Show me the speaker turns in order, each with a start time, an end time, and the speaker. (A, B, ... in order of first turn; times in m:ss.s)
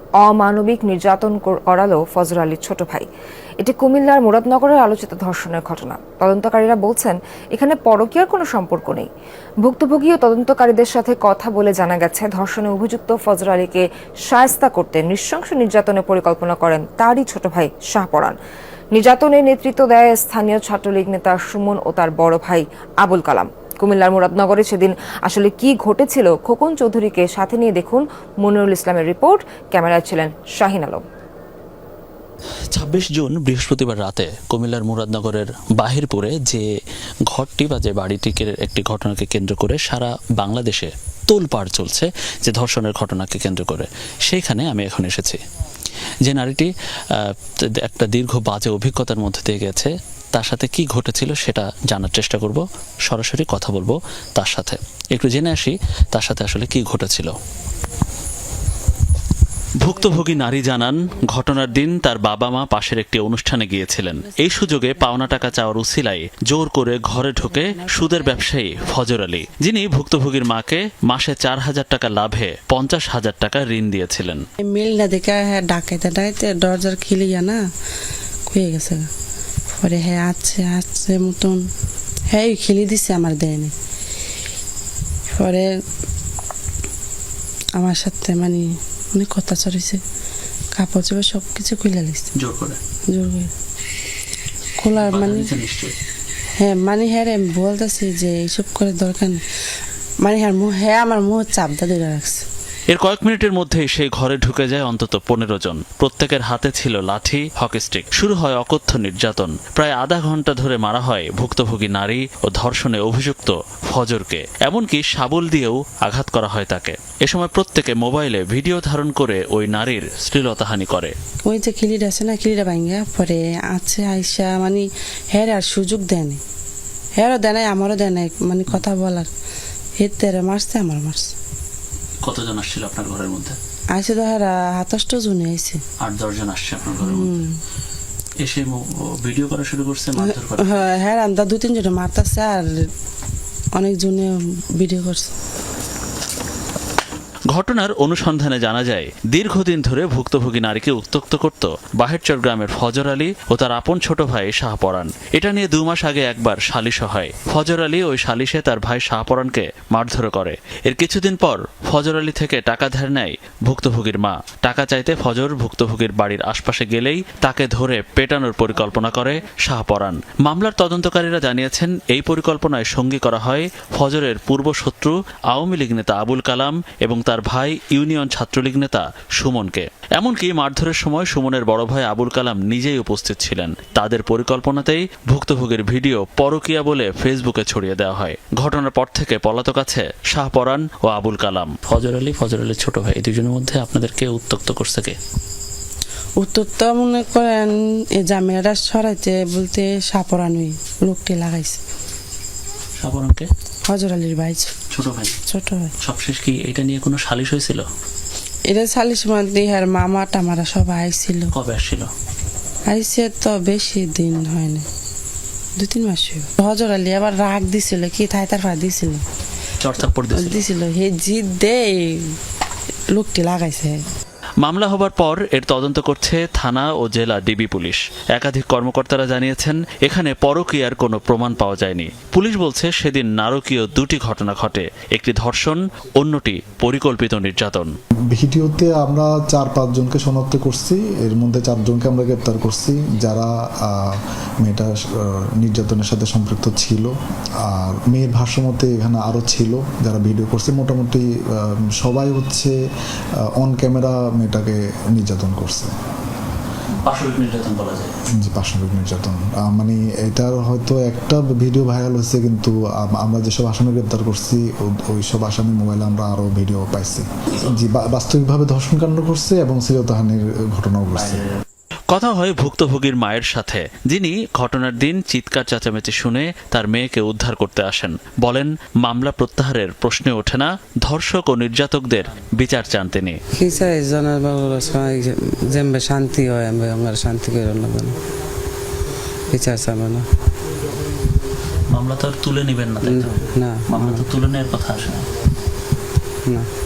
0:00.2-0:03.1 A
0:03.6-0:09.1 A
0:09.6-0:18.4 A
0:18.9-0:31.0 A
0:32.7-0:36.6 B
0:37.3-0:45.4 B
0:46.2-0:57.3 B
0:59.8-1:14.4 B
1:07.5-1:09.0 C
1:14.6-1:17.6 C
1:18.5-1:19.1 C
1:19.8-1:21.6 C
1:22.3-1:23.7 C
1:25.3-1:25.8 C
1:27.8-1:30.0 C
1:30.7-1:32.3 C
1:32.4-1:32.8 B
1:33.1-1:33.5 C
1:34.8-1:35.5 C
1:34.9-1:35.9 B
1:36.6-1:39.4 C
1:40.2-1:42.4 C
1:42.9-2:01.1 B
2:01.4-2:06.4 C
2:07.2-2:09.3 C
2:10.0-2:11.3 C
2:12.2-2:13.6 B
2:13.9-2:15.8 C
2:16.0-2:17.4 B
2:17.0-2:17.6 C
2:18.4-2:20.9 B
2:20.2-2:22.9 C
2:23.8-2:25.3 C
2:27.5-3:15.2 B
3:16.4-3:21.8 C
3:23.0-3:23.5 B
3:23.9-3:24.7 C
3:24.9-3:25.4 B
3:25.5-3:25.9 C
3:26.0-3:27.8 B
3:28.7-3:31.5 C
3:31.5-3:32.1 B
3:32.9-3:34.8 C
3:35.8-3:39.2 C
3:39.8-3:40.6 B
3:40.3-3:42.4 C
3:43.1-3:44.0 C
3:44.6-3:57.9 B
3:58.3-4:07.1 D
4:07.6-4:12.8 D
4:13.6-4:15.9 D
4:17.0-4:18.1 B
4:18.4-4:31.4 D
4:32.1-4:43.4 B
4:43.6-4:48.1 E
4:44.4-4:45.0 C
4:49.5-4:50.2 E
4:49.6-4:50.2 C
4:51.9-4:55.2 B
4:53.1-4:54.2 E